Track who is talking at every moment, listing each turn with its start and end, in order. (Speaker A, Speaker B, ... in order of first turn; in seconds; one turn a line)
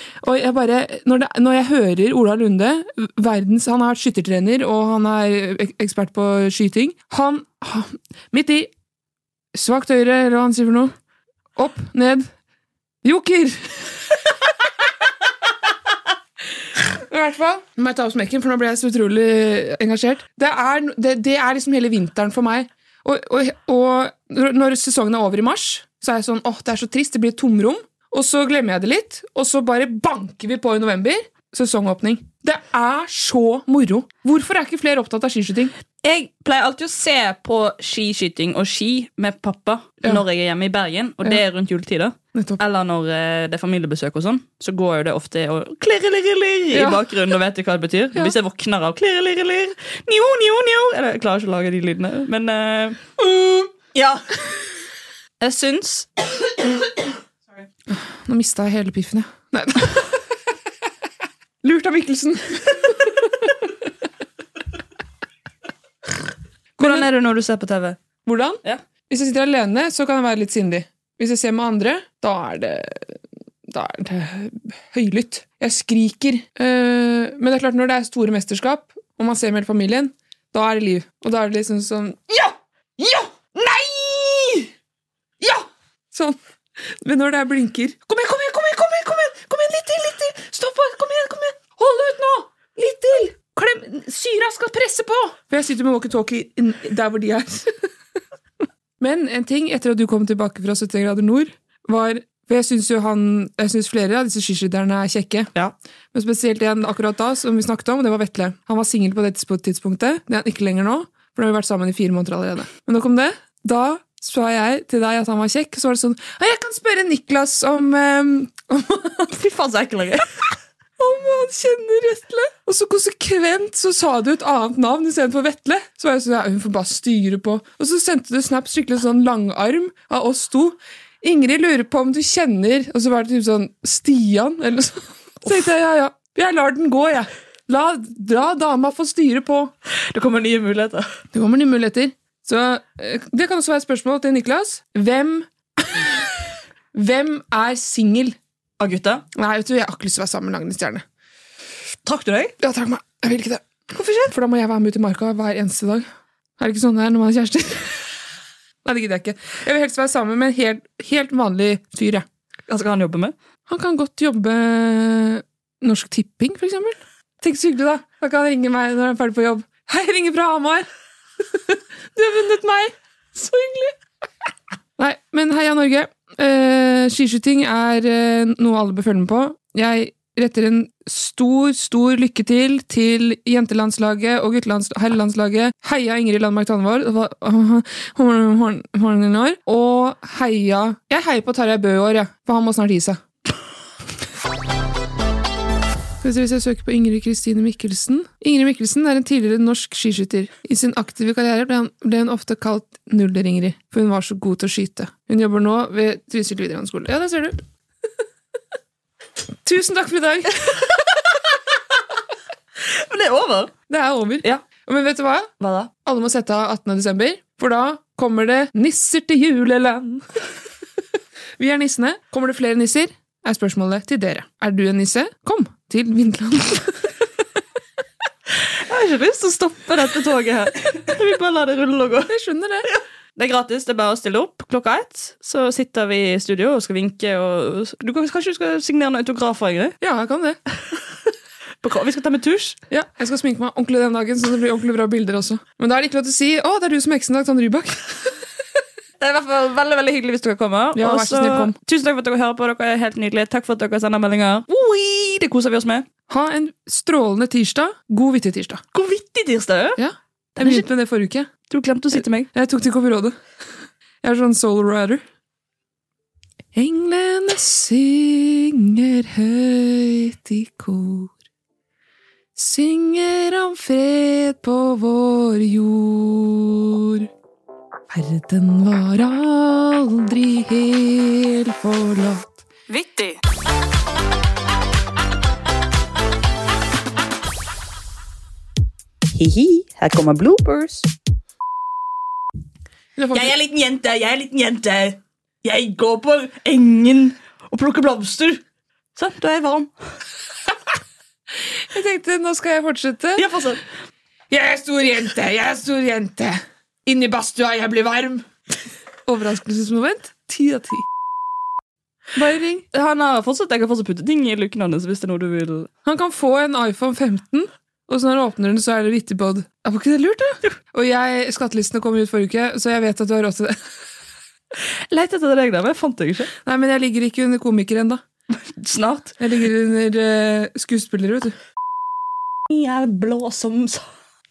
Speaker A: 0.2-8.7
Speaker A: 9.5-10.9
Speaker A: 11.6-12.3
Speaker A: 13.0-13.9
Speaker A: 17.1-35.7
Speaker B: 36.0-53.1
Speaker A: 42.3-42.6
Speaker A: 46.7-47.0
Speaker A: 53.2-53.7
Speaker B: 53.9-54.2
Speaker B: 55.4-56.1
Speaker A: 57.9-60.1
Speaker A: 61.6-63.6
Speaker A: 66.8-67.1
Speaker B: 66.8-68.0
Speaker A: 68.2-84.7
Speaker A: 85.4-86.3
Speaker A: 87.0-97.7
Speaker A: 99.0-105.5
Speaker A: 106.1-119.3
Speaker B: 119.3-120.3
Speaker A: 121.0-139.7
Speaker B: 139.9-141.1
Speaker A: 141.3-146.3
Speaker A: 146.9-148.3
Speaker B: 148.8-149.2
Speaker A: 149.3-151.0
Speaker B: 152.0-152.5
Speaker A: 152.6-153.6
Speaker B: 153.9-154.3
Speaker A: 154.2-156.1
Speaker A: 156.6-158.0
Speaker A: 158.8-162.2
Speaker B: 162.7-163.3
Speaker A: 163.7-170.9
Speaker A: 171.5-173.9
Speaker A: 175.0-193.2
Speaker A: 196.2-207.6
Speaker A: 209.6-210.6
Speaker B: 212.9-213.7
Speaker A: 213.9-215.5
Speaker B: 215.6-215.9
Speaker A: 216.0-220.2
Speaker A: 221.6-227.0
Speaker B: 228.8-232.3
Speaker A: 232.3-232.9
Speaker B: 232.9-239.9
Speaker A: 240.0-240.6
Speaker B: 241.8-242.8
Speaker A: 242.9-248.3
Speaker B: 249.2-256.1
Speaker A: 250.9-251.7
Speaker A: 256.3-258.8
Speaker B: 258.9-260.0
Speaker A: 260.0-261.5
Speaker B: 260.6-260.9
Speaker B: 261.7-262.5
Speaker A: 262.1-263.4
Speaker A: 264.2-265.2
Speaker A: 266.7-271.3
Speaker A: 272.6-277.3
Speaker A: 278.1-282.6
Speaker B: 282.9-283.4
Speaker B: 289.3-291.1
Speaker A: 293.1-293.5
Speaker B: 293.3-298.6
Speaker B: 299.1-299.9
Speaker A: 301.9-303.4
Speaker B: 303.4-303.8
Speaker A: 304.5-308.4
Speaker A: 309.2-311.1
Speaker A: 312.3-312.9
Speaker B: 312.9-315.9
Speaker A: 316.0-323.8
Speaker B: 325.1-326.5
Speaker A: 326.6-328.2
Speaker B: 328.5-329.4
Speaker A: 329.4-331.5
Speaker B: 332.7-334.0